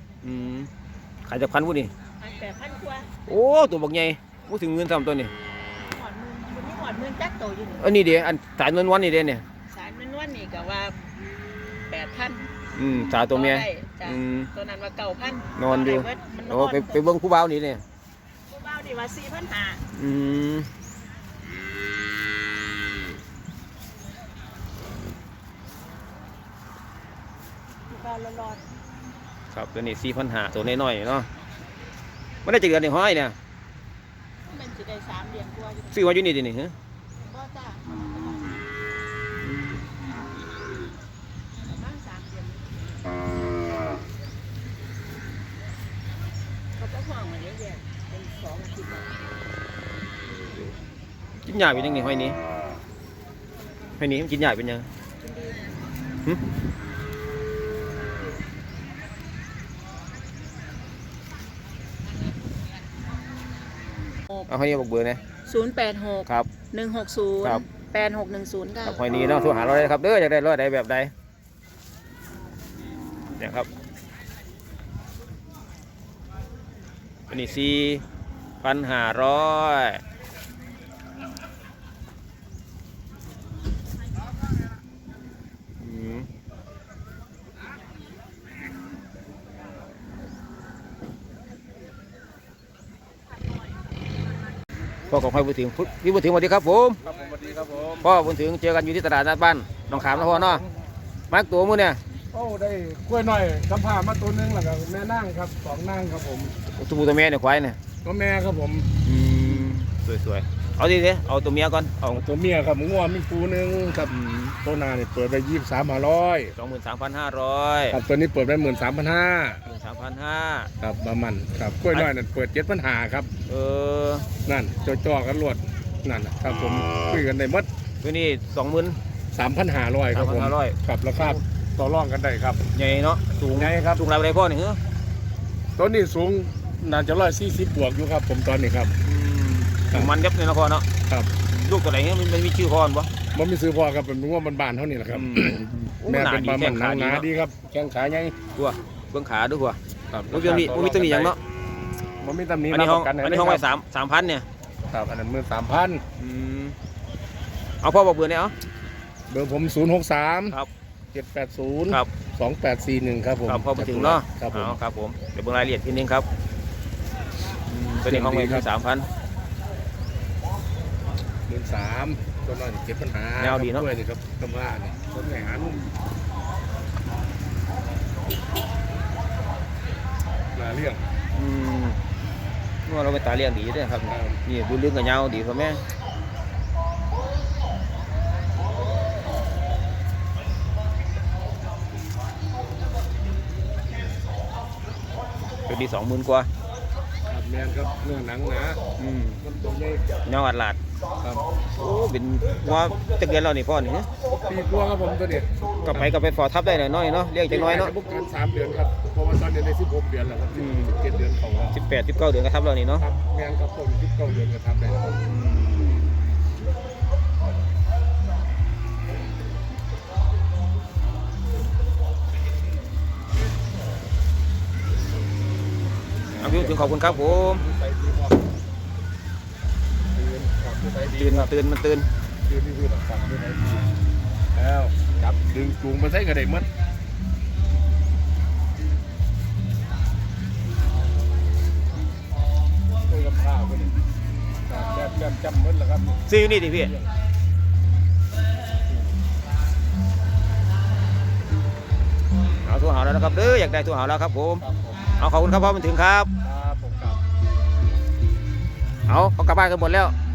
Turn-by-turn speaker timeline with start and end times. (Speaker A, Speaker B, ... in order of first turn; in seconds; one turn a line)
Speaker A: 0.2-0.7
Speaker A: 1.2-1.9
Speaker B: 2.2-3.1
Speaker A: 3.3-5.3
Speaker B: 5.8-7.8
Speaker A: 7.8-9.4
Speaker B: 9.7-11.0
Speaker B: 11.9-12.5
Speaker A: 12.8-14.5
Speaker B: 13.3-17.0
Speaker A: 15.6-17.8
Speaker B: 18.5-19.8
Speaker A: 19.9-20.7
Speaker B: 27.9-28.6
Speaker A: 29.5-31.3
Speaker A: 32.4-33.3
Speaker B: 34.5-35.9
Speaker A: 35.9-36.7
Speaker B: 37.2-37.8
Speaker A: 39.4-39.9
Speaker B: 41.6-42.6
Speaker B: 46.8-49.1
Speaker A: 51.4-52.4
Speaker A: 54.0-54.9
Speaker B: 55.2-55.7
Speaker A: 64.5-65.2
Speaker B: 65.4-69.0
Speaker A: 68.8-71.1
Speaker A: 73.4-73.7
Speaker A: 77.3-78.0
Speaker A: 78.6-80.0
Speaker A: 85.8-86.3
Speaker A: 95.1-97.0
Speaker C: 97.0-98.1
Speaker A: 98.0-100.6
Speaker C: 99.9-100.6
Speaker A: 101.3-102.0
Speaker C: 102.3-106.5
Speaker A: 106.7-107.8
Speaker C: 108.0-108.9
Speaker A: 109.0-112.2
Speaker C: 112.0-116.5
Speaker A: 116.5-118.0
Speaker C: 117.9-119.6
Speaker A: 119.7-120.7
Speaker C: 120.8-123.3
Speaker A: 123.5-124.2
Speaker C: 124.4-127.7
Speaker A: 128.0-129.0
Speaker C: 129.3-132.6
Speaker A: 130.1-131.4
Speaker A: 132.7-134.8
Speaker C: 133.5-134.0
Speaker C: 135.8-138.9
Speaker A: 139.0-140.8
Speaker A: 141.5-143.1
Speaker C: 143.3-148.3
Speaker A: 145.1-147.3
Speaker A: 148.6-151.4
Speaker C: 150.1-151.3
Speaker C: 152.2-153.7
Speaker A: 152.7-154.4
Speaker C: 154.9-156.0
Speaker A: 156.2-156.8
Speaker A: 157.8-158.5
Speaker C: 159.3-160.6
Speaker C: 161.1-164.8
Speaker A: 163.5-166.2
Speaker A: 167.7-169.1
Speaker C: 168.0-168.7
Speaker C: 171.5-175.9
Speaker A: 173.4-173.9
Speaker C: 180.5-181.1
Speaker A: 181.3-182.0
Speaker A: 182.8-185.8
Speaker C: 184.1-184.4
Speaker A: 195.7-196.5
Speaker C: 197.3-198.8
Speaker A: 199.0-199.4
Speaker C: 199.4-200.1
Speaker A: 200.2-200.8
Speaker A: 201.8-204.1
Speaker C: 204.4-206.0
Speaker A: 205.8-207.9
Speaker C: 207.5-211.8
Speaker A: 210.5-210.9
Speaker A: 211.7-213.0
Speaker C: 213.0-215.2
Speaker A: 215.3-215.7
Speaker C: 226.3-228.4
Speaker A: 226.4-227.6
Speaker C: 230.1-231.5
Speaker A: 231.2-232.1
Speaker C: 232.4-233.8
Speaker C: 234.5-236.7
Speaker C: 243.1-244.0
Speaker C: 244.7-246.2
Speaker A: 246.3-246.9
Speaker C: 246.8-247.1
Speaker A: 252.6-254.6
Speaker C: 254.6-255.1
Speaker A: 255.2-256.3
Speaker C: 256.4-257.2
Speaker A: 259.1-260.1